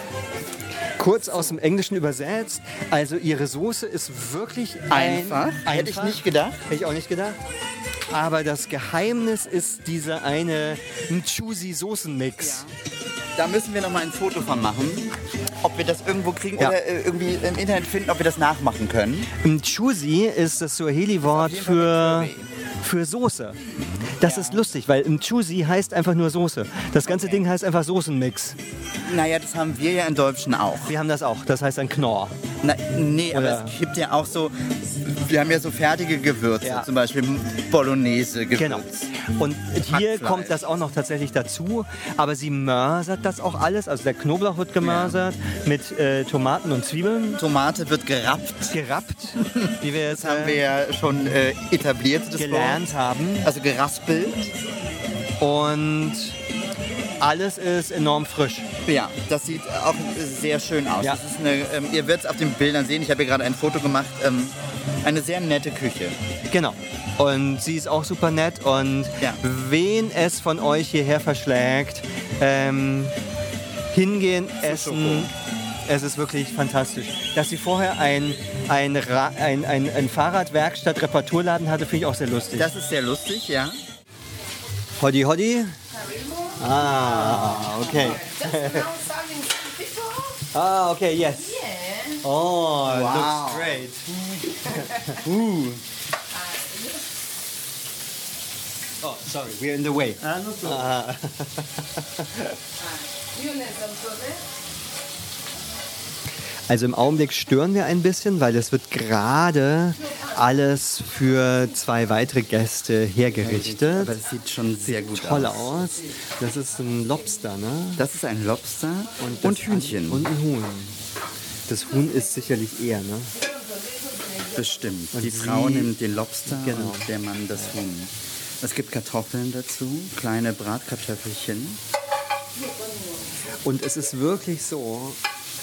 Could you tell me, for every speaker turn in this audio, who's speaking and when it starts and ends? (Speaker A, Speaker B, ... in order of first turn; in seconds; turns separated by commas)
Speaker A: 1.0-7.4, Speaker B: 4.9-6.6, Speaker A: 8.1-12.7, Speaker B: 12.4-12.7, Speaker B: 13.3-19.3, Speaker A: 19.4-23.6, Speaker B: 21.3-22.5, Speaker A: 24.2-28.6, Speaker B: 24.2-24.7, Speaker B: 27.1-27.4, Speaker B: 29.0-30.9, Speaker A: 30.9-32.4, Speaker B: 32.6-39.1, Speaker A: 33.3-33.8, Speaker A: 36.6-36.9, Speaker A: 38.6-47.4, Speaker B: 39.9-40.7, Speaker B: 44.8-45.2, Speaker B: 47.4-48.8, Speaker A: 48.7-50.6, Speaker B: 49.4-52.9, Speaker A: 52.4-53.5, Speaker B: 53.4-54.5, Speaker A: 55.4-56.4, Speaker A: 57.2-58.7, Speaker B: 58.9-66.2, Speaker A: 66.5-73.2, Speaker A: 73.9-75.3, Speaker B: 74.6-75.3, Speaker A: 75.9-82.7, Speaker B: 82.5-83.8, Speaker A: 85.0-85.8, Speaker C: 85.9-86.6, Speaker A: 86.6-88.9, Speaker B: 86.8-88.2, Speaker C: 87.9-90.5, Speaker A: 90.5-91.6, Speaker C: 91.2-92.2, Speaker A: 92.2-94.0, Speaker B: 92.8-95.8, Speaker C: 94.7-95.2, Speaker A: 94.7-95.3, Speaker C: 96.3-97.0, Speaker A: 99.0-102.6, Speaker B: 100.2-100.9, Speaker C: 102.8-104.4, Speaker A: 106.7-114.2, Speaker B: 113.4-115.8, Speaker A: 114.9-118.0, Speaker B: 118.0-120.3, Speaker A: 119.2-121.0, Speaker A: 121.7-123.3, Speaker C: 123.4-124.6, Speaker B: 124.5-131.8, Speaker A: 125.1-125.9, Speaker A: 126.5-127.1, Speaker C: 132.6-133.3, Speaker A: 133.6-135.2